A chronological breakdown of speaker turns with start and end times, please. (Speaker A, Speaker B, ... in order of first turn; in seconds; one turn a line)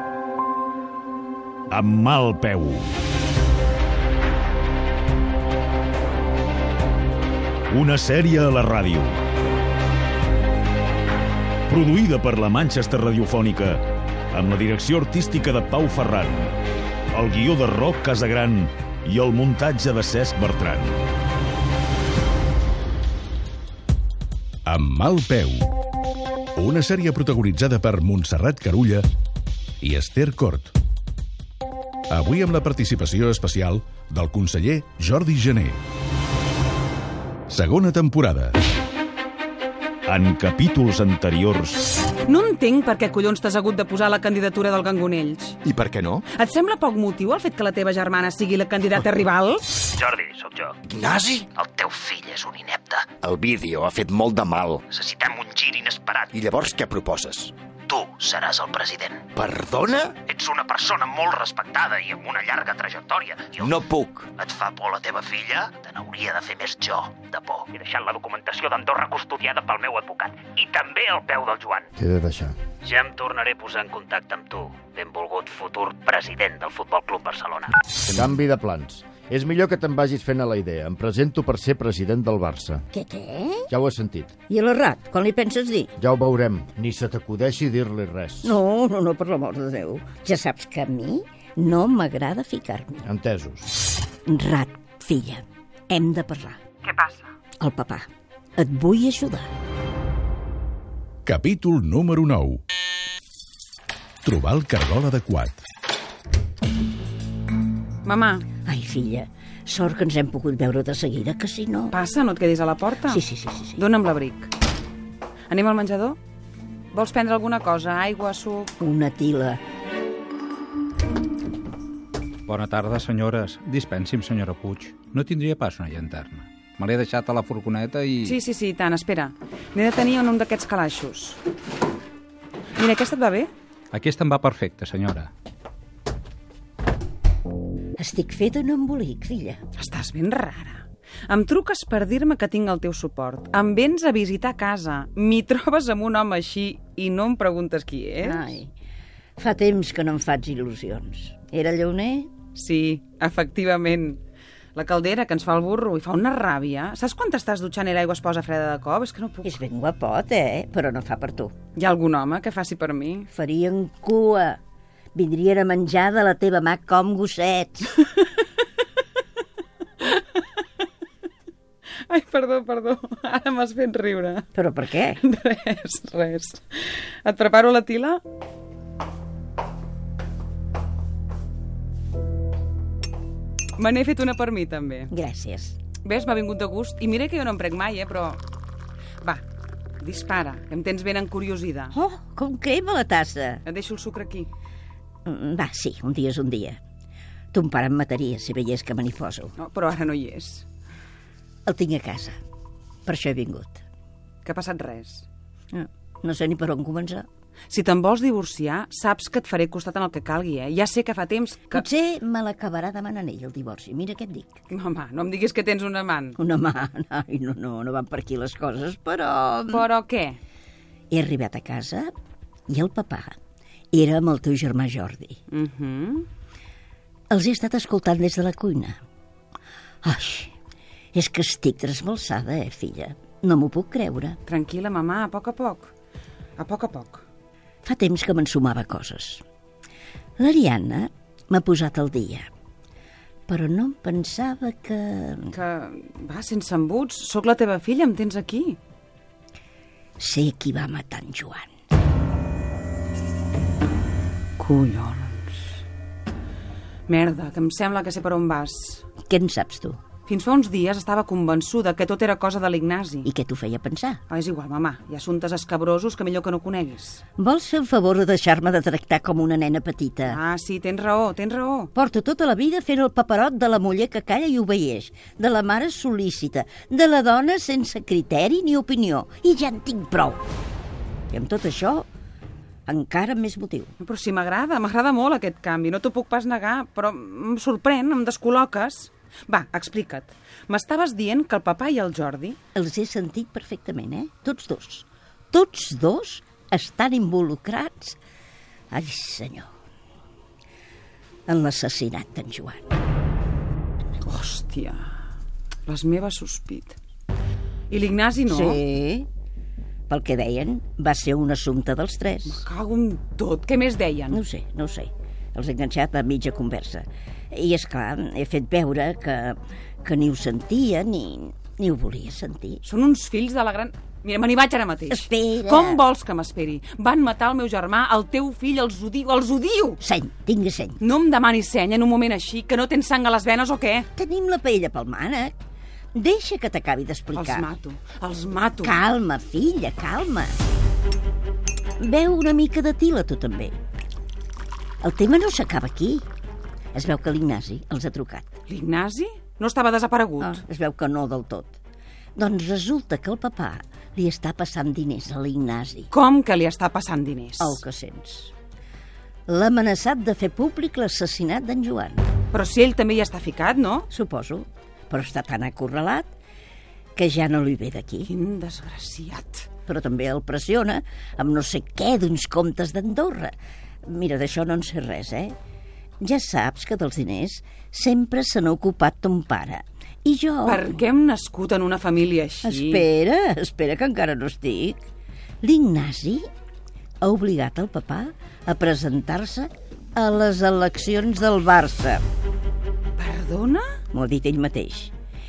Speaker A: 1.7-3.0
Speaker A: 7.7-9.2
Speaker A: 11.7-16.6
Speaker A: 17.1-21.0
Speaker B: 24.6-25.7
Speaker B: 26.6-29.1
Speaker B: 29.8-30.7
Speaker B: 32.1-35.8
Speaker B: 37.5-38.6
Speaker A: 40.1-41.9
Speaker C: 42.3-45.6
Speaker D: 45.6-46.2
Speaker C: 46.4-49.8
Speaker E: 50.0-50.8
Speaker D: 50.9-51.5
Speaker E: 51.5-53.2
Speaker D: 53.2-54.9
Speaker E: 54.9-56.4
Speaker D: 56.3-57.5
Speaker E: 57.9-59.3
Speaker D: 59.3-60.2
Speaker E: 60.2-63.8
Speaker D: 63.6-64.3
Speaker E: 64.3-71.9
Speaker F: 72.0-72.6
Speaker E: 72.8-77.8
Speaker F: 78.1-82.8
Speaker G: 82.9-83.7
Speaker F: 83.7-84.3
Speaker G: 84.5-85.9
Speaker F: 86.0-88.5
Speaker G: 88.4-93.0
Speaker F: 93.1-93.7
Speaker G: 94.3-96.6
Speaker C: 96.8-97.3
Speaker G: 97.6-99.5
Speaker B: 101.2-102.6
Speaker B: 104.2-105.6
Speaker C: 108.0-108.5
Speaker G: 108.7-112.0
Speaker C: 111.9-113.2
Speaker G: 113.1-113.8
Speaker C: 113.8-114.5
Speaker C: 115.5-116.2
Speaker C: 116.9-118.7
Speaker G: 118.8-119.6
Speaker H: 122.5-128.3
Speaker C: 128.2-131.4
Speaker C: 132.8-133.5
Speaker H: 133.9-135.3
Speaker G: 138.0-139.6
Speaker C: 139.8-148.6
Speaker G: 148.2-148.7
Speaker G: 149.4-152.3
Speaker C: 152.5-154.2
Speaker C: 154.8-159.6
Speaker G: 159.4-161.5
Speaker C: 161.8-163.3
Speaker G: 163.3-164.6
Speaker G: 165.2-168.1
Speaker C: 172.1-174.5
Speaker G: 174.5-175.2
Speaker C: 175.2-178.2
Speaker C: 183.8-185.1
Speaker G: 185.1-185.8
Speaker C: 186.0-188.4
Speaker C: 190.0-191.9
Speaker G: 191.9-193.6
Speaker C: 193.7-194.5
Speaker G: 195.3-196.8
Speaker G: 197.5-199.5
Speaker C: 199.6-200.7
Speaker G: 201.7-202.4
Speaker G: 203.1-203.8
Speaker C: 204.4-205.3
Speaker G: 205.7-207.3
Speaker C: 207.7-211.8
Speaker G: 211.7-214.6
Speaker C: 214.7-216.4
Speaker G: 216.4-219.9
Speaker C: 219.7-220.4
Speaker G: 221.1-222.1
Speaker G: 222.7-223.4
Speaker G: 223.9-225.4
Speaker C: 225.5-226.3
Speaker G: 227.3-229.0
Speaker G: 230.0-230.5
Speaker G: 231.1-234.4
Speaker C: 234.5-235.9
Speaker C: 236.6-237.2
Speaker G: 237.8-239.4
Speaker G: 240.4-242.5
Speaker G: 243.5-245.6
Speaker C: 245.5-248.8
Speaker G: 250.2-251.7
Speaker C: 254.6-255.7
Speaker C: 257.1-259.1
Speaker G: 259.3-260.0
Speaker C: 260.3-263.3
Speaker G: 263.2-264.2
Speaker C: 264.3-267.2
Speaker G: 267.4-270.4
Speaker C: 270.3-271.9
Speaker G: 271.9-280.4
Speaker G: 281.3-282.1
Speaker G: 282.9-283.9
Speaker C: 284.0-292.6
Speaker G: 292.8-298.2
Speaker G: 298.9-299.7
Speaker G: 301.5-302.9
Speaker C: 304.2-305.1
Speaker C: 305.9-307.0
Speaker C: 307.9-308.8
Speaker G: 308.5-309.3
Speaker G: 310.1-312.6
Speaker C: 312.4-314.4
Speaker G: 314.3-322.8
Speaker C: 322.8-330.0
Speaker G: 325.1-326.0
Speaker G: 330.0-331.0
Speaker C: 331.0-334.1
Speaker G: 334.1-335.6
Speaker G: 336.1-337.7
Speaker C: 337.3-339.0
Speaker G: 338.8-340.6
Speaker G: 342.0-343.8
Speaker G: 345.0-346.2
Speaker G: 346.9-348.6
Speaker C: 348.7-350.6
Speaker G: 350.4-351.8
Speaker G: 352.4-356.1
Speaker C: 356.1-357.8
Speaker G: 357.6-358.5
Speaker G: 359.5-362.3
Speaker C: 362.5-364.1
Speaker G: 364.1-366.3
Speaker G: 367.2-368.3
Speaker C: 368.3-369.7
Speaker G: 369.9-373.5
Speaker G: 374.1-375.6
Speaker G: 376.2-380.9
Speaker C: 380.6-383.1
Speaker G: 382.6-385.0
Speaker G: 385.6-386.5
Speaker G: 387.2-392.2
Speaker C: 393.2-393.9
Speaker G: 394.1-395.1